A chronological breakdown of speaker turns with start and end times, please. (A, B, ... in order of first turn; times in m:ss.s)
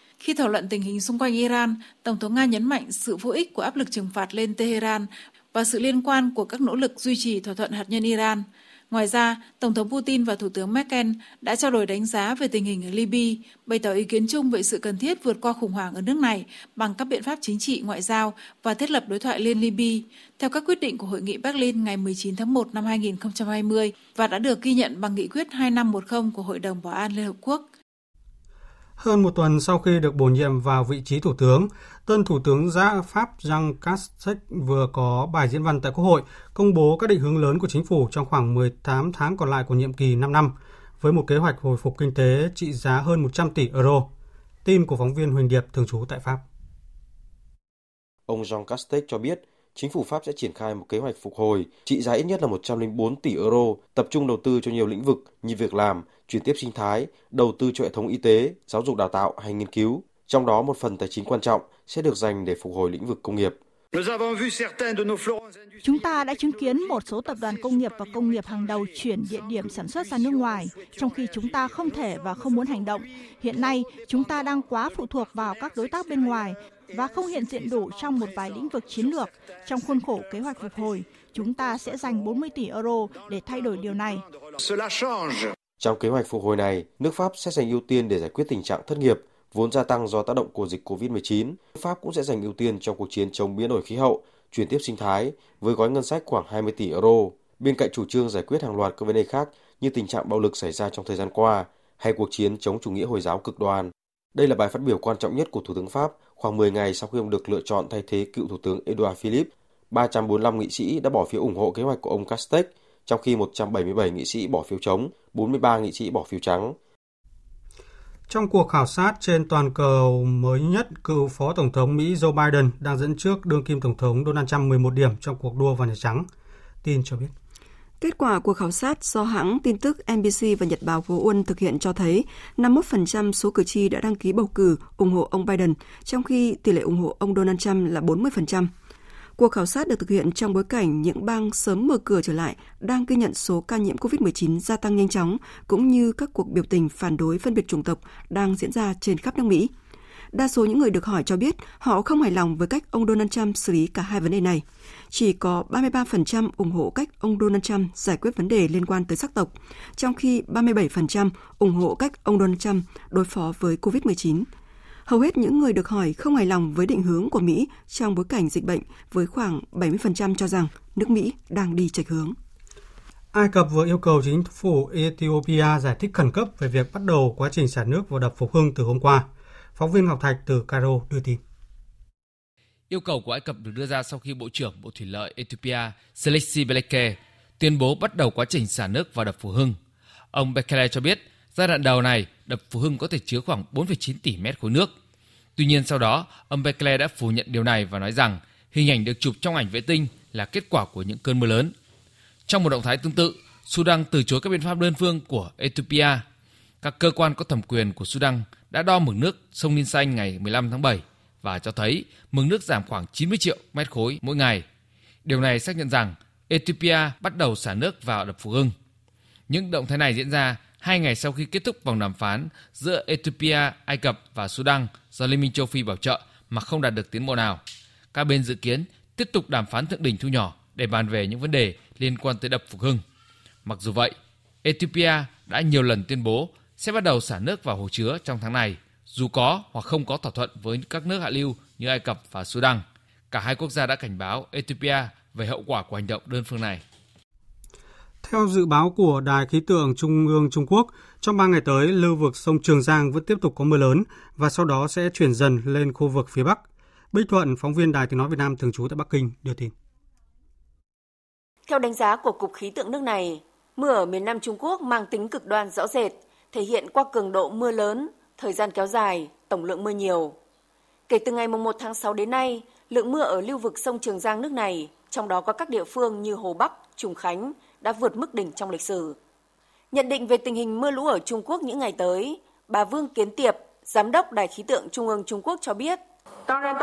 0:00.2-0:27.7 A
0:29.0-0:44.1 B
0:44.6-0:46.4 B
0:48.3-1:03.6 C
1:05.8-1:24.2 D
1:25.8-1:56.8 C
1:58.3-2:06.3 B
2:06.8-2:07.3 B
2:08.0-2:18.7 E
2:19.4-2:29.7 E
2:30.3-2:44.5 E
2:45.1-2:52.4 E
2:53.3-3:01.4 B
3:02.9-3:09.8 F
3:10.3-3:14.9 F
3:15.6-3:21.7 F
3:22.5-3:26.2 F
3:26.8-3:34.6 F
3:35.3-3:38.7 F
3:39.5-3:47.6 F
3:48.1-3:53.0 F
3:53.6-3:54.1 F
3:54.6-4:06.8 F
4:08.2-4:19.7 B
4:21.7-4:30.4 G
4:31.1-4:39.2 G
4:39.9-4:46.0 G